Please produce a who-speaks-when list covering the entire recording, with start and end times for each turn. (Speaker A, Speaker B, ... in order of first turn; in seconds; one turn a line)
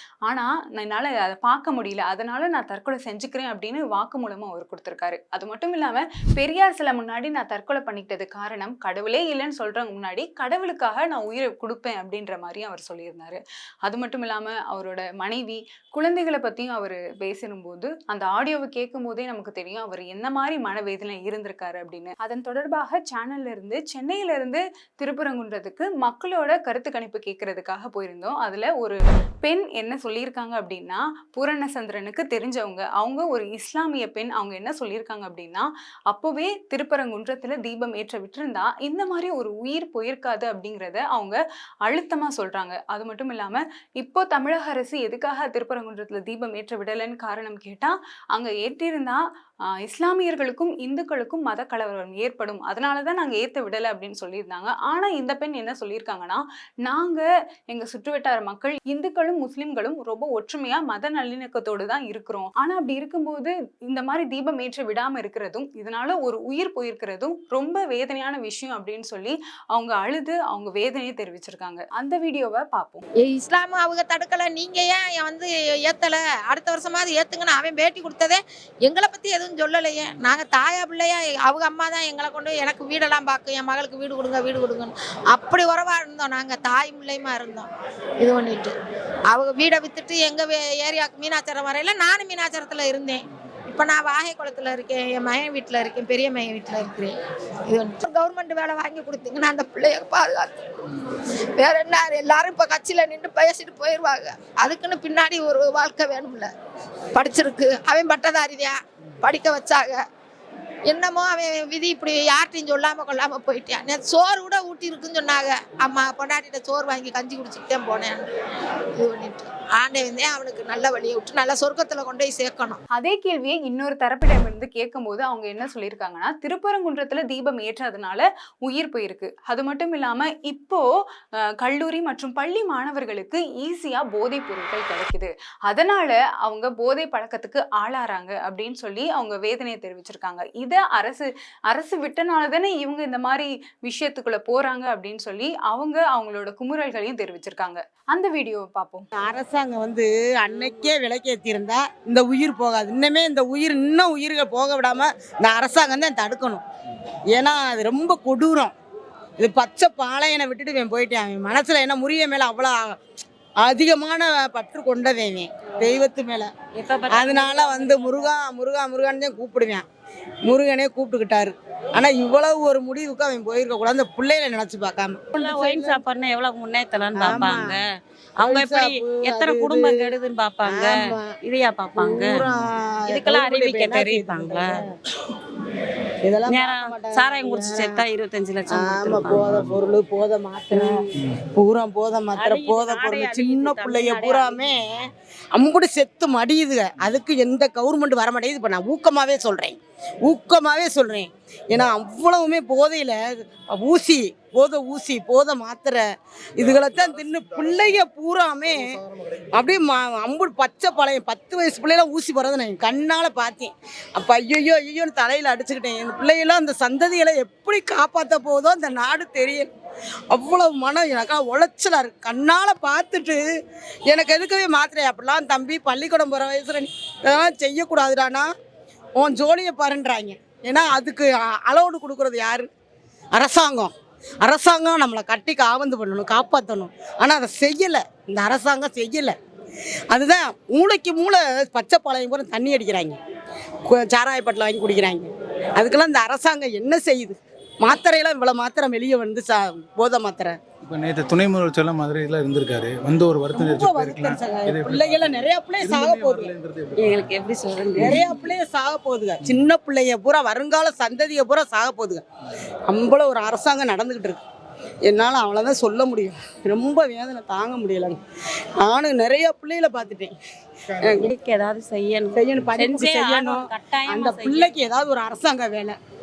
Speaker A: 0.2-49.2
Speaker A: 49.8-73.0
Speaker B: 73.2-87.7
Speaker B: 88.2-88.7
Speaker B: 89.3-97.1
Speaker B: 97.7-100.5
Speaker B: 101.5-106.5
Speaker B: 107.1-110.0
Speaker B: 110.9-118.2
Speaker B: 119.0-122.8
Speaker A: 122.9-130.8
Speaker A: 131.6-149.1
Speaker C: 149.2-156.6
Speaker C: 157.3-158.7
Speaker C: 159.4-163.0
Speaker C: 163.6-166.5
Speaker D: 166.8-168.3
Speaker C: 167.1-169.8
Speaker C: 170.4-176.0
Speaker D: 175.4-177.9
Speaker C: 177.1-177.7
Speaker D: 178.4-182.5
Speaker C: 178.4-180.1
Speaker C: 180.7-181.3
Speaker C: 181.9-184.9
Speaker D: 183.1-184.7
Speaker C: 186.2-188.0
Speaker D: 186.5-189.6
Speaker C: 188.7-195.0
Speaker D: 190.7-191.0
Speaker D: 192.3-194.7
Speaker C: 195.5-206.0
Speaker C: 206.6-209.0
Speaker C: 209.5-219.7
Speaker C: 220.3-223.4
Speaker C: 224.1-228.5
Speaker C: 229.2-232.7
Speaker C: 233.3-233.9
Speaker C: 234.4-239.3
Speaker C: 240.1-243.2
Speaker C: 243.8-250.6
Speaker E: 250.8-257.3
Speaker C: 253.5-256.5
Speaker D: 257.0-258.3
Speaker C: 258.0-262.2
Speaker E: 258.0-258.5
Speaker C: 262.9-264.4
Speaker C: 265.1-268.2
Speaker C: 268.8-270.3
Speaker C: 271.0-271.3
Speaker D: 271.1-274.8
Speaker C: 272.3-276.0